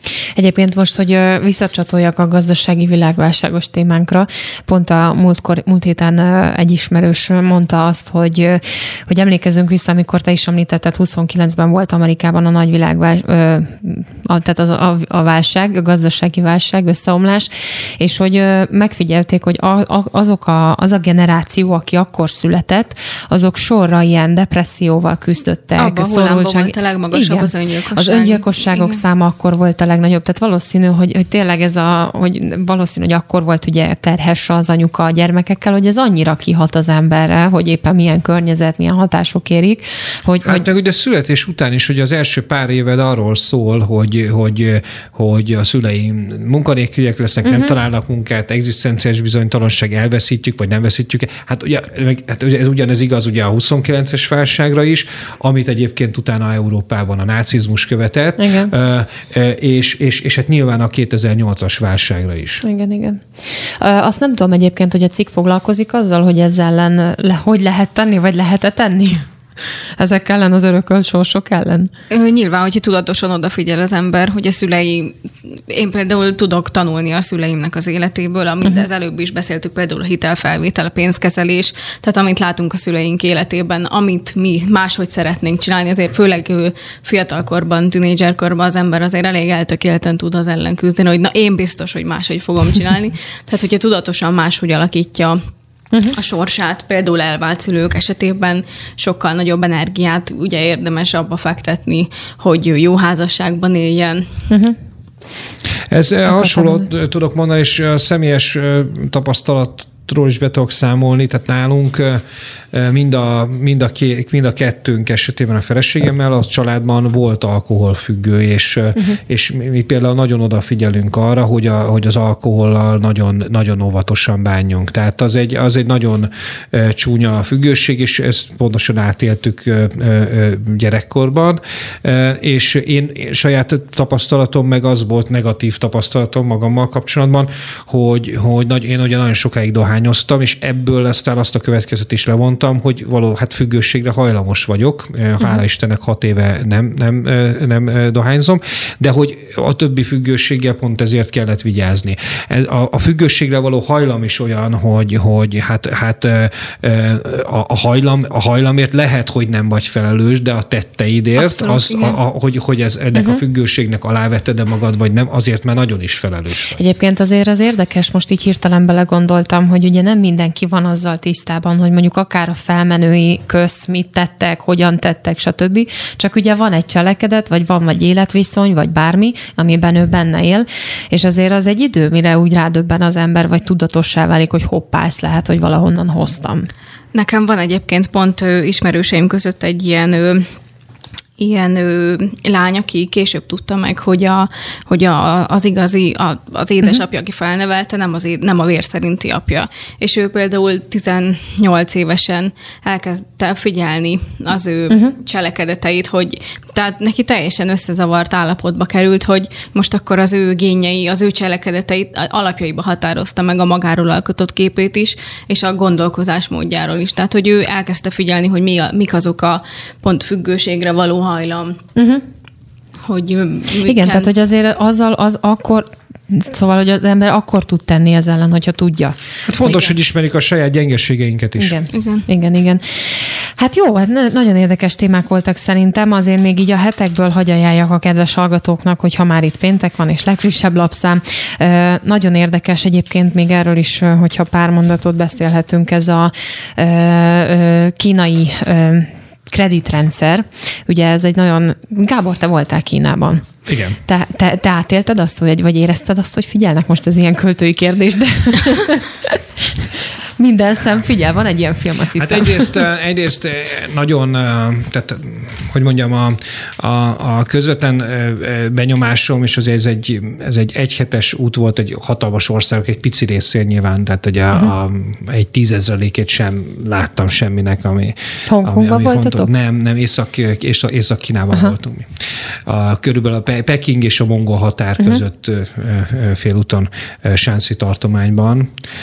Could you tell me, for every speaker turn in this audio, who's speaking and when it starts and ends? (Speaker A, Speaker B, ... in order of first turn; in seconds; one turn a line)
Speaker A: 0.4-40.6
Speaker B: 25.8-29.0
Speaker C: 40.4-62.6
Speaker A: 47.4-47.7
Speaker A: 58.4-58.7
Speaker A: 62.6-69.3
Speaker A: 70.0-71.9
Speaker B: 72.1-95.4
Speaker B: 96.1-104.3
Speaker A: 104.5-104.8
Speaker C: 105.9-166.8
Speaker A: 106.2-106.9
Speaker B: 161.3-162.2
Speaker A: 163.1-163.4
Speaker A: 166.7-186.7
Speaker B: 187.1-190.5
Speaker B: 191.4-221.8
Speaker A: 221.9-222.2
Speaker B: 223.0-224.3
Speaker A: 223.8-229.9
Speaker C: 229.4-231.8
Speaker A: 231.6-253.5
Speaker B: 231.9-232.2
Speaker C: 253.7-254.0
Speaker A: 254.1-259.8
Speaker A: 260.4-262.8
Speaker C: 262.1-288.7
Speaker A: 278.5-279.5